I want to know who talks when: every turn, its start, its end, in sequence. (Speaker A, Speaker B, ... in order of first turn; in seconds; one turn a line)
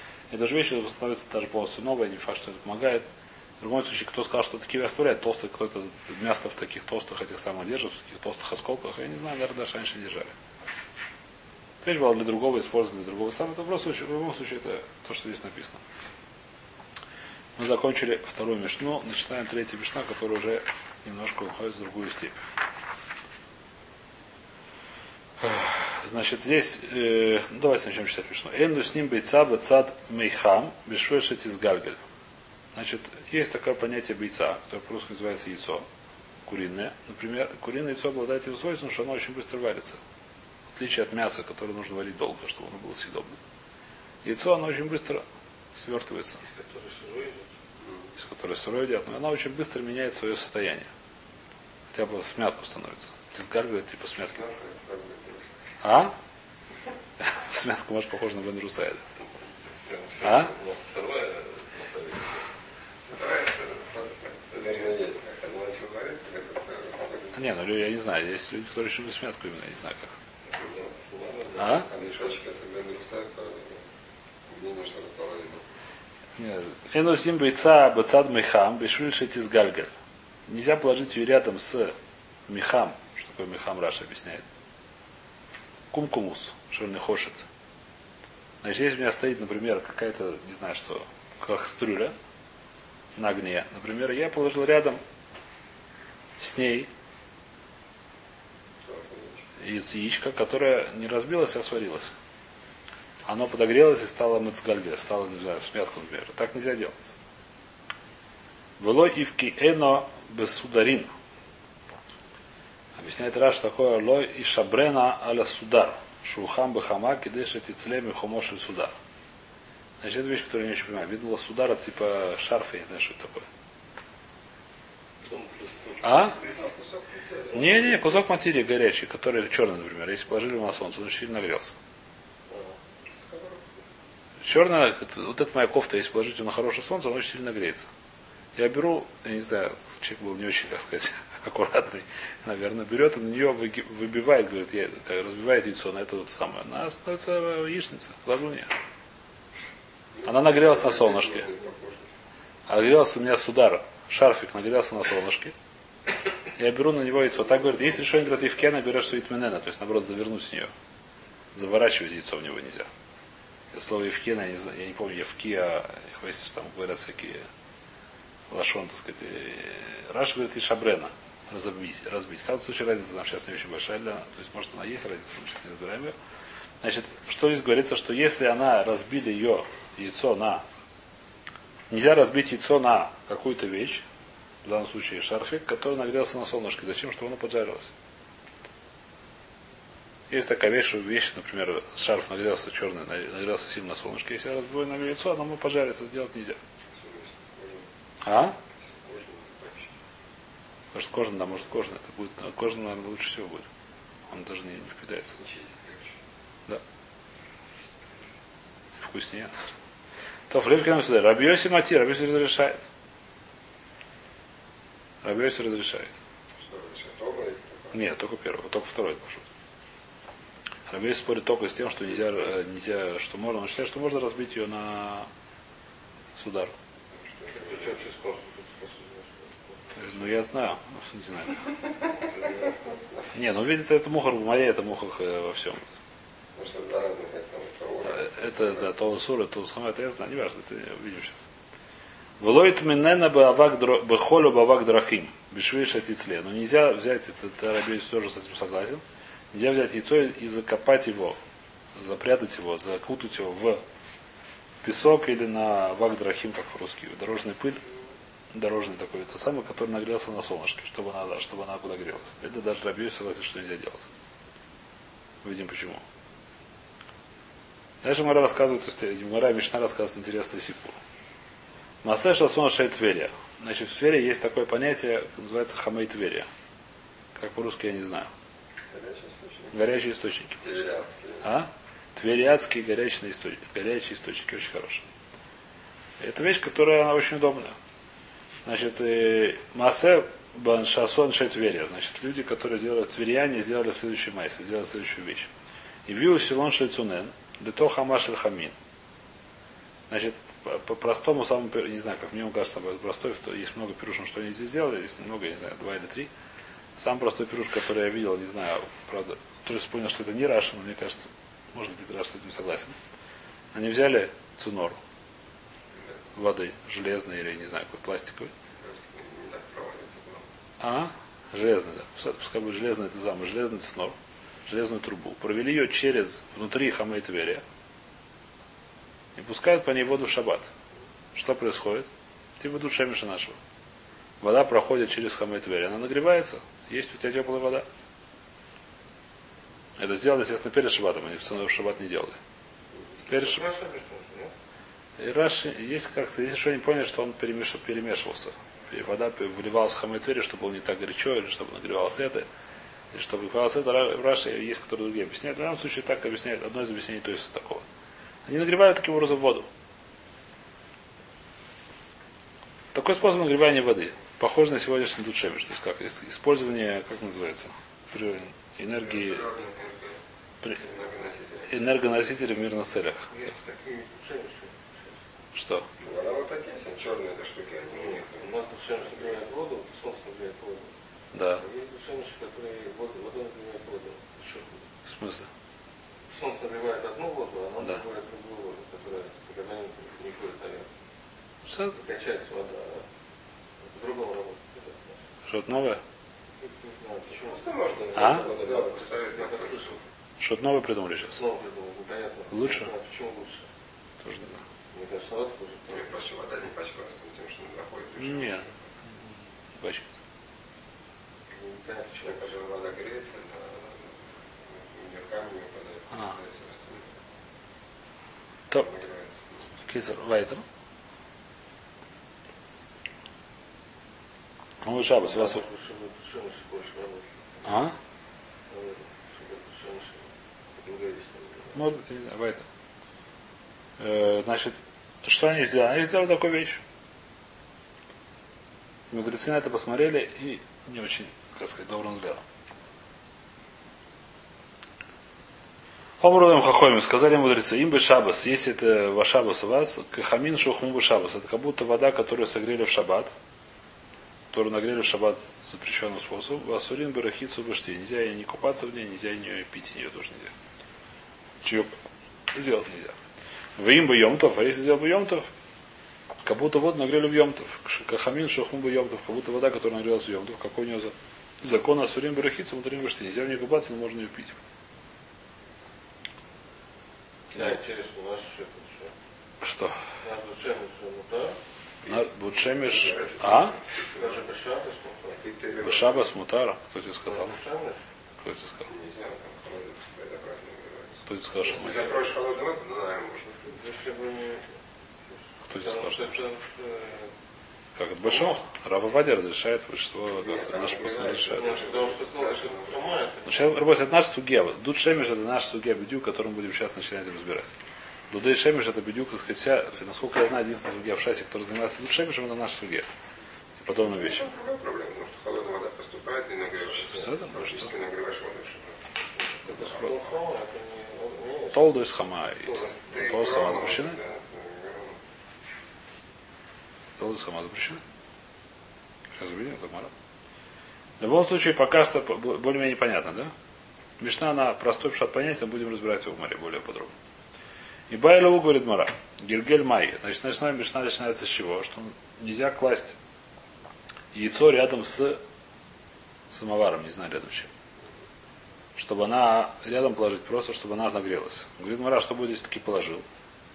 Speaker A: 0.3-3.0
Speaker A: 3.6-10.3
Speaker A: 11.8-15.8
Speaker A: 17.6-22.4
Speaker A: 25.4-32.0
Speaker A: 32.7-35.8
Speaker A: 36.5-40.0
Speaker A: 40.7-43.4
Speaker A: 44.2-46.4
Speaker B: 46.4-47.5
Speaker C: 47.8-48.1
Speaker A: 48.1-50.9
Speaker A: 51.9-54.4
Speaker C: 54.3-55.6
Speaker A: 55.8-56.1
Speaker A: 57.2-59.0
Speaker B: 59.8-62.5
Speaker A: 60.2-60.5
Speaker C: 63.0-67.4
Speaker B: 64.5-64.9
Speaker A: 67.3-70.1
Speaker B: 70.5-72.3
Speaker A: 71.5-71.9
Speaker C: 71.9-73.9
Speaker C: 74.5-75.6
Speaker A: 76.4-79.9
Speaker A: 80.5-81.9
Speaker A: 82.5-84.4
Speaker A: 85.9-87.4
Speaker A: 88.6-92.1
Speaker A: 93.2-95.0
Speaker A: 96.4-96.9
Speaker C: 98.8-99.4
Speaker A: 99.6-102.1
Speaker A: 103.2-107.1
Speaker A: 108.8-111.1
Speaker A: 113.0-118.9
Speaker A: 120.0-123.5
Speaker B: 125.2-126.7
Speaker A: 126.0-126.4
Speaker C: 126.4-128.2
Speaker A: 127.5-131.8
Speaker B: 132.5-132.8
Speaker C: 133.1-133.8
Speaker A: 134.4-137.9
Speaker A: 138.6-148.7
Speaker C: 150.1-152.1
Speaker A: 150.2-151.5
Speaker A: 152.7-155.5
Speaker A: 156.5-160.7
Speaker A: 161.5-162.9
Speaker A: 163.7-167.4
Speaker A: 168.5-176.1
Speaker A: 176.8-180.6
Speaker A: 181.9-184.0
Speaker A: 184.6-187.9
Speaker A: 190.3-196.6
Speaker C: 196.9-197.9
Speaker A: 198.2-198.6
Speaker C: 198.8-199.9
Speaker A: 200.9-203.7
Speaker A: 204.3-205.4
Speaker C: 205.4-206.2
Speaker A: 209.0-209.5
Speaker A: 210.5-212.8
Speaker A: 215.2-216.1
Speaker C: 216.6-217.9
Speaker A: 217.9-219.4
Speaker A: 220.9-225.3
Speaker A: 226.4-226.7
Speaker C: 227.1-228.0
Speaker B: 227.5-229.8
Speaker A: 229.9-231.7
Speaker B: 232.3-232.8
Speaker A: 233.3-235.9
Speaker C: 236.5-238.9
Speaker A: 238.0-241.5
Speaker A: 242.4-251.4
Speaker A: 251.9-253.8
Speaker A: 254.8-257.8
Speaker A: 258.5-264.1
Speaker A: 265.4-266.0
Speaker A: 268.0-271.0
Speaker A: 272.0-276.5
Speaker A: 277.3-278.3
Speaker C: 278.9-279.8
Speaker A: 279.7-280.7
Speaker C: 280.6-281.4
Speaker A: 281.4-285.1
Speaker A: 286.2-287.8
Speaker A: 288.6-295.5
Speaker A: 296.1-298.7
Speaker A: 300.1-306.3
Speaker A: 306.9-312.9
Speaker A: 313.7-315.0
Speaker A: 316.3-318.5
Speaker C: 318.8-320.5
Speaker A: 320.8-327.6
Speaker A: 329.4-330.7
Speaker A: 331.3-332.1
Speaker A: 332.6-333.6
Speaker A: 334.4-337.9
Speaker A: 340.0-342.4
Speaker B: 343.3-344.5
Speaker A: 343.3-343.6
Speaker A: 345.2-352.5
Speaker A: 353.1-357.8
Speaker A: 358.4-359.7
Speaker A: 362.9-369.5
Speaker C: 369.0-370.2
Speaker C: 370.7-371.7
Speaker A: 371.6-373.3
Speaker B: 373.3-375.2
Speaker A: 375.5-375.9
Speaker C: 376.0-378.5
Speaker B: 377.9-380.9
Speaker A: 381.3-381.6
Speaker B: 381.6-384.8
Speaker A: 385.0-385.5
Speaker B: 386.3-390.9
Speaker A: 391.7-392.0
Speaker B: 391.9-393.1
Speaker B: 393.8-395.2
Speaker A: 395.5-396.0
Speaker B: 396.6-400.0
Speaker C: 397.4-400.0
Speaker A: 398.1-398.4
Speaker A: 400.4-401.4
Speaker B: 401.4-403.7
Speaker A: 402.5-402.9
Speaker A: 404.2-404.6
Speaker B: 404.9-406.1
Speaker C: 405.9-408.8
Speaker A: 408.2-410.2
Speaker B: 411.5-412.4
Speaker C: 412.2-417.1
Speaker A: 416.1-416.4
Speaker C: 418.7-419.6
Speaker A: 419.9-420.6
Speaker A: 424.8-425.6
Speaker B: 425.2-427.4
Speaker A: 427.6-427.9
Speaker B: 428.7-431.8
Speaker A: 431.7-432.6
Speaker A: 434.0-436.8
Speaker A: 439.1-442.4
Speaker A: 446.2-453.3
Speaker A: 454.5-460.5
Speaker A: 461.6-461.9
Speaker A: 462.5-463.1
Speaker A: 463.8-465.5
Speaker A: 466.4-474.6
Speaker B: 477.5-479.1
Speaker A: 479.6-480.0
Speaker B: 480.2-481.6
Speaker A: 482.1-483.8
Speaker C: 482.8-484.2
Speaker B: 483.9-485.4
Speaker C: 485.4-486.3
Speaker A: 485.8-487.5
Speaker B: 487.2-488.0
Speaker A: 488.4-488.9
Speaker C: 488.9-493.7
Speaker A: 491.2-492.2
Speaker B: 491.9-492.1
Speaker B: 493.7-494.8
Speaker B: 495.3-497.3
Speaker A: 495.7-496.4
Speaker A: 497.9-501.8
Speaker C: 500.4-503.0
Speaker B: 501.4-503.7
Speaker A: 503.4-507.8
Speaker A: 508.3-513.1
Speaker A: 513.8-514.5
Speaker C: 513.9-519.0
Speaker A: 517.0-517.9
Speaker B: 519.6-521.9
Speaker A: 519.6-520.2
Speaker A: 521.7-524.2
Speaker B: 522.6-523.0
Speaker C: 523.1-525.2
Speaker A: 527.2-528.0
Speaker A: 529.4-530.1
Speaker A: 531.2-533.5
Speaker A: 534.2-537.1
Speaker A: 538.1-543.2
Speaker A: 544.3-545.4
Speaker A: 546.5-547.7
Speaker A: 549.0-553.2